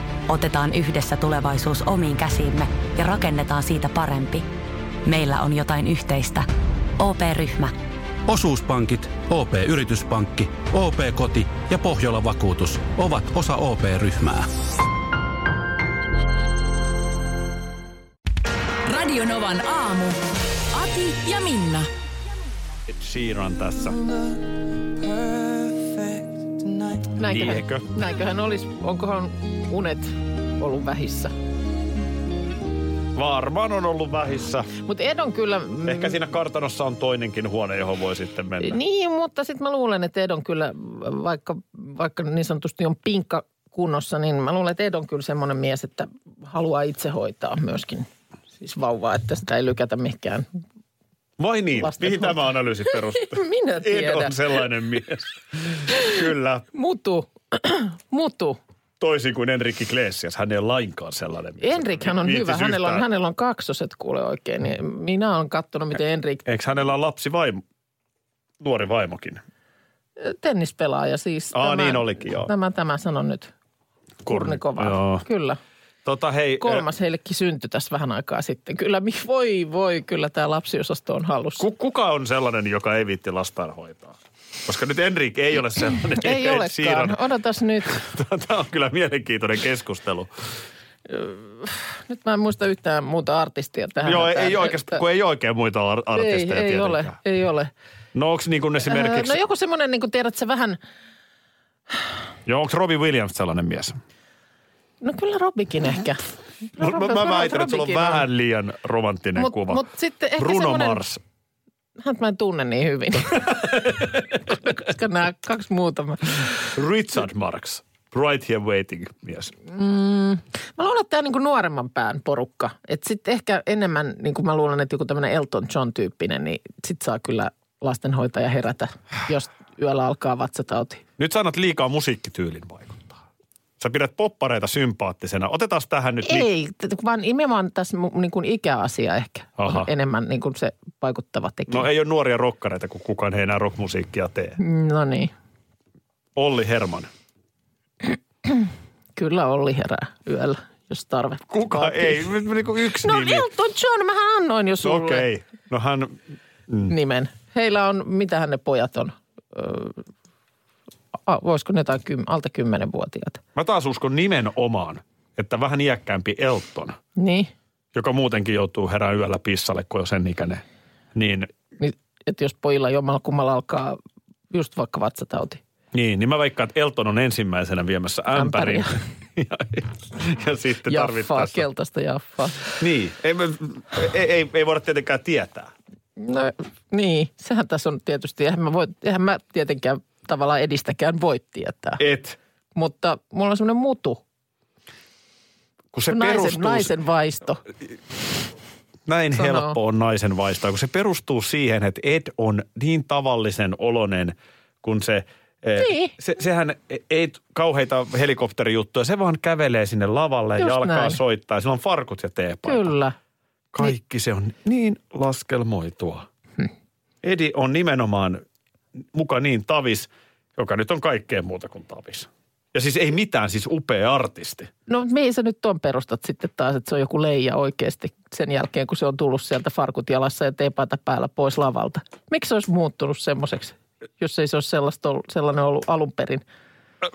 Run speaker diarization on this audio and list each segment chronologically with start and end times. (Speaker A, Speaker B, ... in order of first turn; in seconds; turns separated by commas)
Speaker A: 0.3-4.5, Speaker A: 5.0-6.5, Speaker A: 7.0-7.8, Speaker B: 8.3-14.5, Speaker C: 18.9-21.9, Speaker D: 22.9-24.1, Speaker E: 27.1-31.3, Speaker D: 27.2-27.9, Speaker D: 33.1-34.7, Speaker E: 34.8-36.2, Speaker D: 35.9-38.8, Speaker E: 38.6-48.1, Speaker E: 48.6-50.5, Speaker D: 51.4-56.7, Speaker E: 51.8-54.6, Speaker E: 55.9-56.2, Speaker E: 56.7-58.6, Speaker D: 59.0-63.0, Speaker E: 61.6-66.5, Speaker D: 66.5-67.6, Speaker D: 68.6-69.4, Speaker E: 70.2-73.5, Speaker D: 71.5-72.5, Speaker D: 74.2-75.2, Speaker E: 74.3-75.6, Speaker D: 76.0-76.8, Speaker E: 76.6-81.7, Speaker D: 81.6-87.2, Speaker E: 86.2-88.0, Speaker D: 87.9-90.3, Speaker E: 91.1-95.0, Speaker D: 94.0-97.2, Speaker E: 96.2-97.7, Speaker D: 98.2-99.4, Speaker E: 98.8-100.8, Speaker D: 102.5-104.0, Speaker E: 105.0-108.2, Speaker D: 106.8-109.8, Speaker E: 109.4-111.0, Speaker D: 110.4-111.2, Speaker E: 112.0-116.7, Speaker D: 113.5-114.2, Speaker D: 116.7-119.5, Speaker E: 119.7-131.0, Speaker D: 131.2-133.2, Speaker D: 133.8-136.5, Speaker E: 136.2-141.9, Speaker D: 139.6-139.9, Speaker D: 141.7-144.6, Speaker E: 144.6-145.3, Speaker D: 146.4-147.1, Speaker E: 148.5-152.3, Speaker D: 151.5-153.5, Speaker E: 153.0-155.3, Speaker D: 154.8-156.2, Speaker E: 156.8-160.0, Speaker E: 161.3-163.4, Speaker D: 163.6-167.0, Speaker E: 167.2-167.5, Speaker D: 167.9-170.6, Speaker D: 171.2-171.5, Speaker E: 171.8-174.0, Speaker E: 174.5-175.6, Speaker D: 175.9-181.7, Speaker E: 178.3-178.9, Speaker E: 180.9-182.7, Speaker D: 182.8-185.7, Speaker E: 186.2-192.0, Speaker D: 192.0-192.4, Speaker E: 192.8-194.2, Speaker D: 195.9-196.9, Speaker E: 196.1-197.6, Speaker D: 199.1-212.9, Speaker E: 199.4-199.8, Speaker E: 205.8-206.2, Speaker E: 210.6-211.2, Speaker E: 212.7-213.2, Speaker D: 213.7-216.3, Speaker D: 217.2-218.4, Speaker D: 219.1-224.7, Speaker E: 224.9-236.4